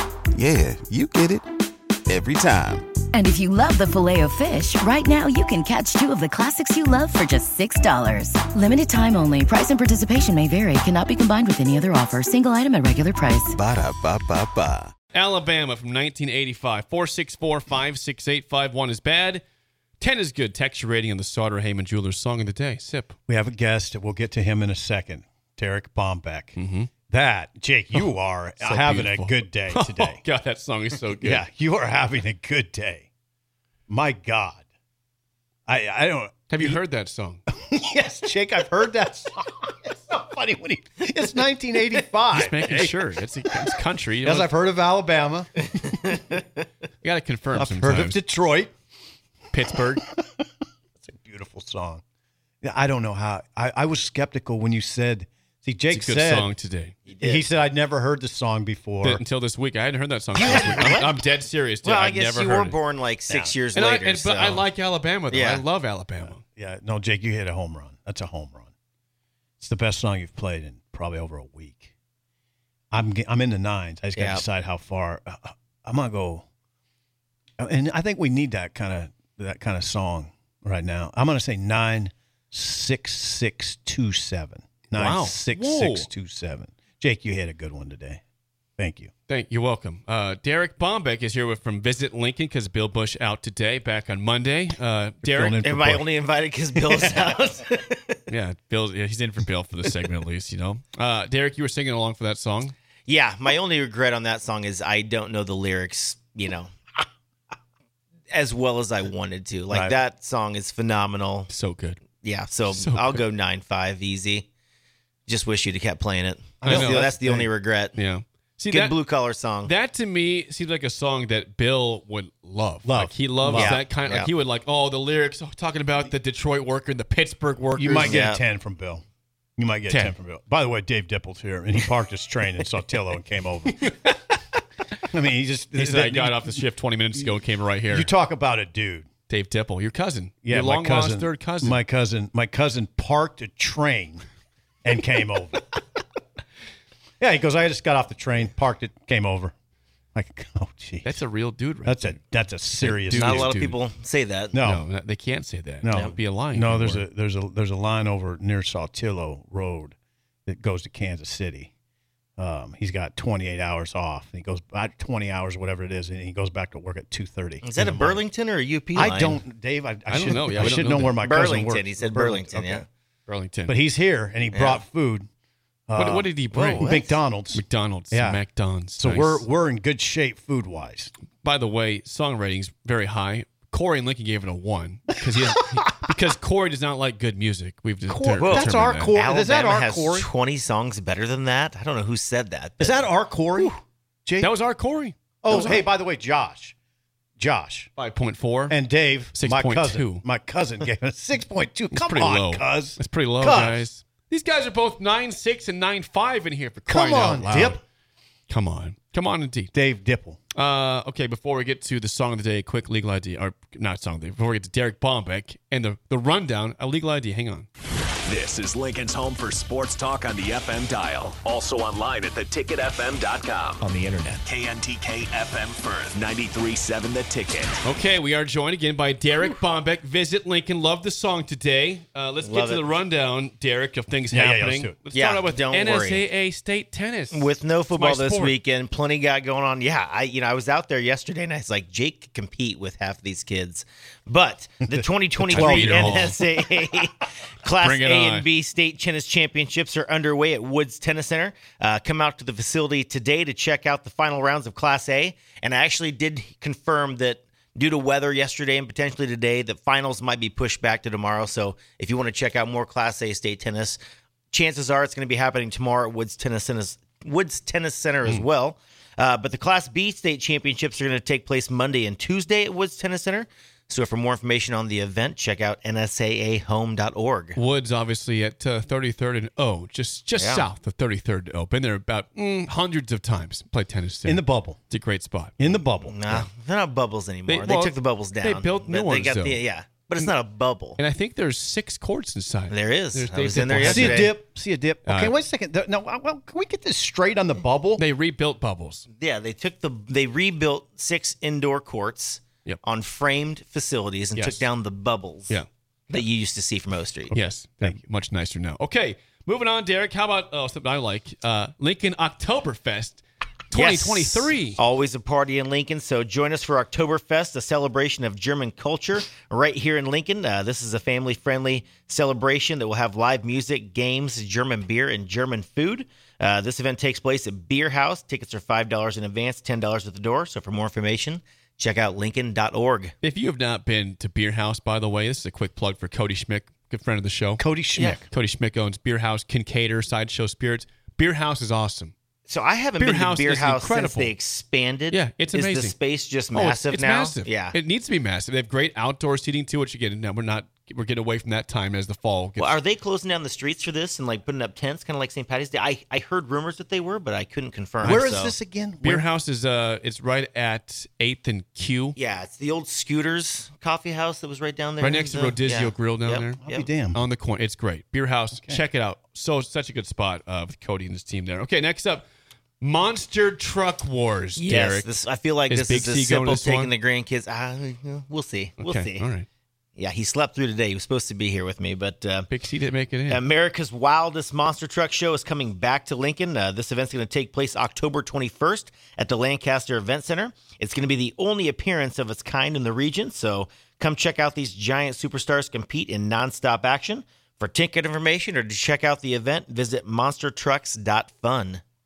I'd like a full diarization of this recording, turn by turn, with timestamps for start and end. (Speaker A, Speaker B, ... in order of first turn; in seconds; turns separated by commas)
Speaker A: 0.3-1.5, Speaker A: 2.1-2.9, Speaker B: 3.1-13.6, Speaker A: 13.5-14.9, Speaker C: 15.1-19.4, Speaker C: 20.0-23.2, Speaker D: 23.3-30.2, Speaker C: 26.6-26.9, Speaker C: 27.9-31.4, Speaker D: 31.2-33.1, Speaker D: 33.9-34.6, Speaker D: 35.7-36.8, Speaker C: 36.5-37.4, Speaker D: 37.5-43.0, Speaker C: 42.3-44.5, Speaker D: 43.5-46.2, Speaker C: 47.0-48.2, Speaker D: 47.5-48.7, Speaker C: 49.5-50.0, Speaker D: 50.0-50.4, Speaker D: 51.0-52.0, Speaker D: 52.6-56.5, Speaker C: 55.9-57.0, Speaker E: 57.1-57.5, Speaker D: 57.2-59.2, Speaker C: 59.0-62.8, Speaker D: 60.3-61.0, Speaker E: 60.4-61.2, Speaker E: 61.8-64.7, Speaker D: 63.3-63.5, Speaker C: 63.7-66.4, Speaker E: 65.3-65.6, Speaker D: 66.3-68.7, Speaker D: 69.6-71.9, Speaker D: 72.9-76.5, Speaker E: 74.2-74.5, Speaker D: 77.6-88.2, Speaker C: 85.0-86.1, Speaker D: 88.8-89.1, Speaker C: 89.3-95.7, Speaker D: 95.2-96.1, Speaker E: 95.6-98.2, Speaker D: 96.8-97.2, Speaker C: 98.3-102.8, Speaker E: 103.1-107.0, Speaker E: 108.3-111.5, Speaker C: 111.5-112.0, Speaker E: 112.2-114.5, Speaker C: 112.6-113.2, Speaker E: 115.3-118.0, Speaker D: 116.6-117.5, Speaker C: 116.7-117.1, Speaker C: 118.0-128.3, Speaker E: 118.7-119.7, Speaker D: 122.8-123.8, Speaker E: 123.5-124.3, Speaker D: 127.8-129.0, Speaker E: 128.0-128.4, Speaker D: 129.6-133.8, Speaker C: 129.9-130.2, Speaker C: 133.8-134.4, Speaker D: 135.1-136.6, Speaker C: 135.8-138.1, Speaker D: 137.9-139.1, Speaker C: 139.3-141.8, Speaker D: 140.4-144.2, Speaker D: 144.8-145.8, Speaker D: 147.2-149.6, Speaker D: 150.2-151.2, Speaker C: 151.0-152.2, Speaker D: 151.8-153.5, Speaker C: 152.8-153.8, Speaker E: 153.1-154.6, Speaker D: 154.5-154.8, Speaker C: 154.6-157.1, Speaker D: 155.8-161.7, Speaker D: 162.4-168.2, Speaker E: 167.6-169.4, Speaker D: 168.9-172.9, Speaker C: 170.1-171.2, Speaker E: 170.6-172.8, Speaker C: 173.3-173.8, Speaker D: 173.7-175.3, Speaker E: 174.5-174.8, Speaker D: 175.9-178.4, Speaker C: 176.0-176.9, Speaker E: 176.5-177.2, Speaker C: 177.5-179.5, Speaker D: 179.0-181.1, Speaker C: 181.4-189.2, Speaker D: 188.1-190.3, Speaker E: 188.4-193.1, Speaker D: 192.8-194.5, Speaker C: 194.4-195.8, Speaker D: 195.4-196.8, Speaker D: 197.4-197.9, Speaker C: 198.0-198.8, Speaker D: 198.7-203.8, Speaker C: 199.3-200.2, Speaker C: 201.9-207.8, Speaker D: 206.9-207.8, Speaker C: 208.5-209.7, Speaker D: 209.7-210.4, Speaker C: 210.6-217.7, Speaker F: 218.2-227.8, Speaker C: 227.8-238.5, Speaker E: 232.4-232.9, Speaker D: 234.3-235.0, Speaker E: 235.1-236.2, Speaker E: 237.3-264.0, Speaker D: 244.9-246.6, Speaker C: 245.5-246.4, Speaker C: 247.8-248.5, Speaker E: 264.5-277.6, Speaker C: 277.6-285.6, Speaker E: 280.4-280.7, Speaker D: 284.2-284.8, Speaker D: 285.6-286.5, Speaker E: 286.0-291.0, Speaker C: 287.5-289.6, Speaker C: 291.0-294.4, Speaker E: 292.7-294.4, Speaker D: 293.8-298.0, Speaker C: 295.1-295.3, Speaker C: 298.0-299.1, Speaker E: 299.1-307.3, Speaker C: 304.4-304.8, Speaker D: 307.3-308.0, Speaker C: 307.3-314.8, Speaker E: 313.7-333.1, Speaker C: 333.2-337.6, Speaker D: 337.6-338.2, Speaker C: 338.2-342.1, Speaker E: 342.5-347.8, Speaker C: 343.0-344.4, Speaker C: 345.1-346.0, Speaker C: 346.5-352.8, Speaker E: 352.6-358.6, Speaker D: 358.0-359.2, Speaker C: 359.0-362.2, Speaker E: 362.2-366.9, Speaker C: 365.0-366.6, Speaker D: 366.6-367.2, Speaker C: 367.1-372.3, Speaker D: 368.6-368.8, Speaker C: 372.8-375.1, Speaker E: 374.6-379.3, Speaker C: 375.7-376.9, Speaker C: 378.8-379.5, Speaker E: 380.0-382.5, Speaker C: 382.5-383.4, Speaker E: 383.3-401.8